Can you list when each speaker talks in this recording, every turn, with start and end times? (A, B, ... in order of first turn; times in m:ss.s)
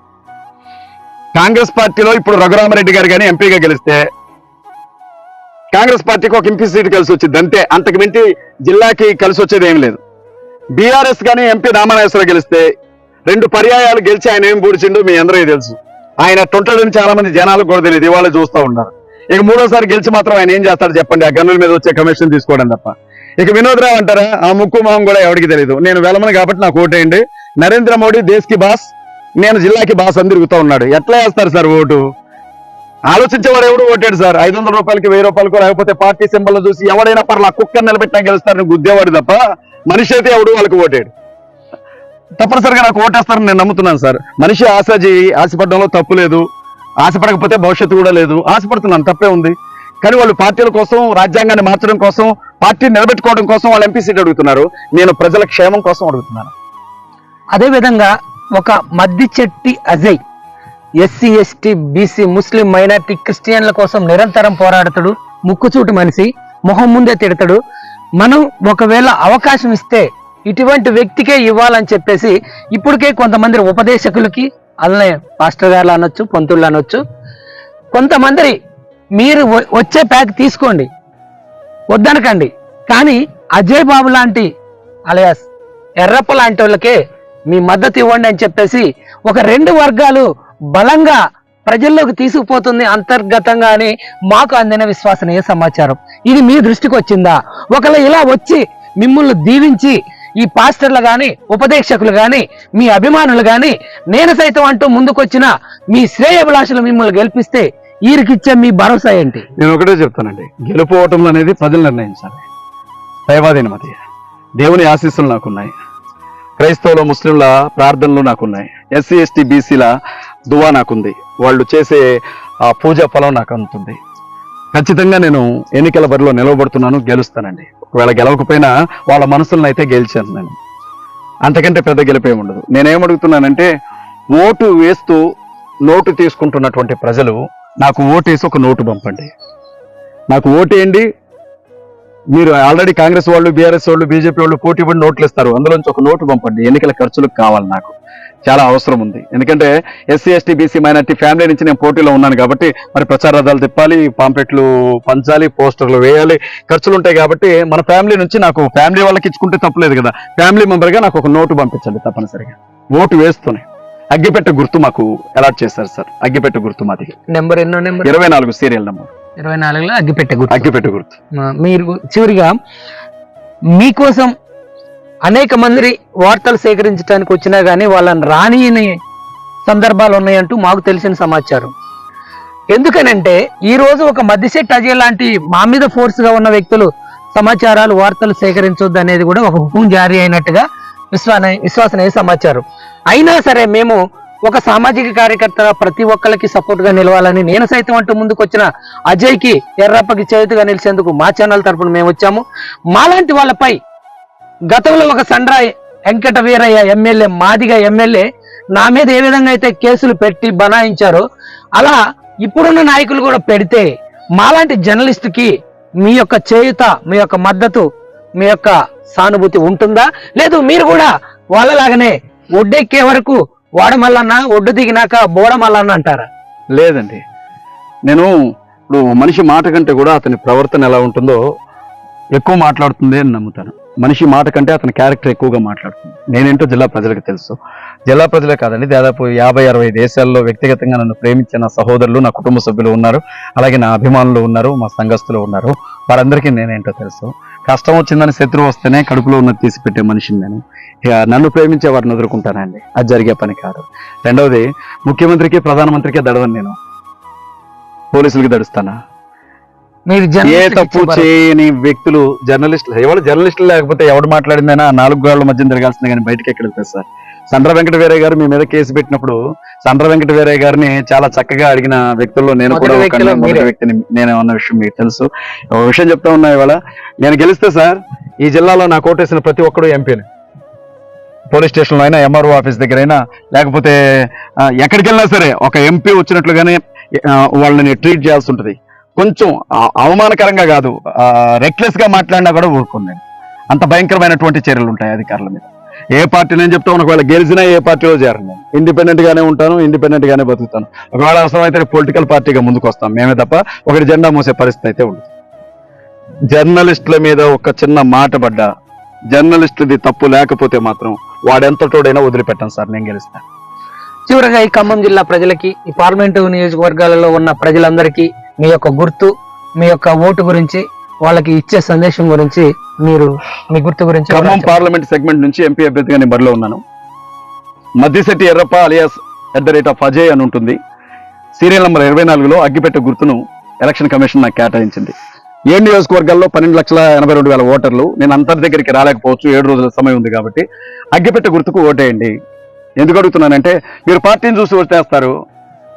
0:01.4-0:04.0 A
0:05.7-0:10.0 A
0:10.8-0:12.6 A
0:13.3-0:32.0 A
0:33.1-0:39.4 A
0:39.9-0:41.1 A
0:42.4-0:46.4 A
0:47.0-0:56.5 A
0:57.5-1:00.2 B
1:01.0-1:07.6 B
1:08.2-1:17.0 B
1:17.9-1:18.6 B
1:19.2-1:20.9 B
1:21.9-1:24.5 B
1:25.1-1:25.4 B
1:26.0-1:27.0 B
1:27.5-1:49.4 B
1:49.6-1:52.4 A
1:53.3-1:54.0 A
1:54.6-1:55.7 A
1:56.6-1:59.9 A
2:00.5-2:02.0 A
2:02.7-2:04.0 A
2:04.7-2:10.5 A
2:11.4-2:13.7 A
2:14.3-2:15.2 A
2:15.9-2:19.3 A
2:20.3-2:21.1 A
2:22.3-2:47.1 A
2:47.3-2:48.1 B
2:48.0-2:49.1 A
2:49.4-2:50.7 B
2:50.5-2:51.2 A
2:51.4-2:52.5 B
2:53.8-2:54.3 B
2:55.3-2:58.9 B
2:59.6-3:01.7 B
3:02.7-3:22.4 B
3:22.9-3:23.8 B
3:24.7-3:31.2 B
3:31.8-3:35.5 B
3:36.0-3:37.8 B
3:38.4-3:46.3 B
3:46.7-3:47.2 A
3:48.9-3:51.4 A
3:52.3-3:57.6 A
3:58.1-4:16.8 A
4:18.1-4:19.0 A
4:20.1-4:21.3 B
4:20.4-4:40.2 A
4:32.7-4:33.7 B
4:41.5-4:44.3 A
4:44.8-5:05.3 A
5:06.5-5:08.7 A
5:09.3-5:13.4 A
5:14.3-5:24.7 B
5:24.3-5:26.8 A
5:28.0-5:30.8 A
5:31.6-5:35.1 A
5:35.7-5:42.3 A
5:43.0-5:45.3 A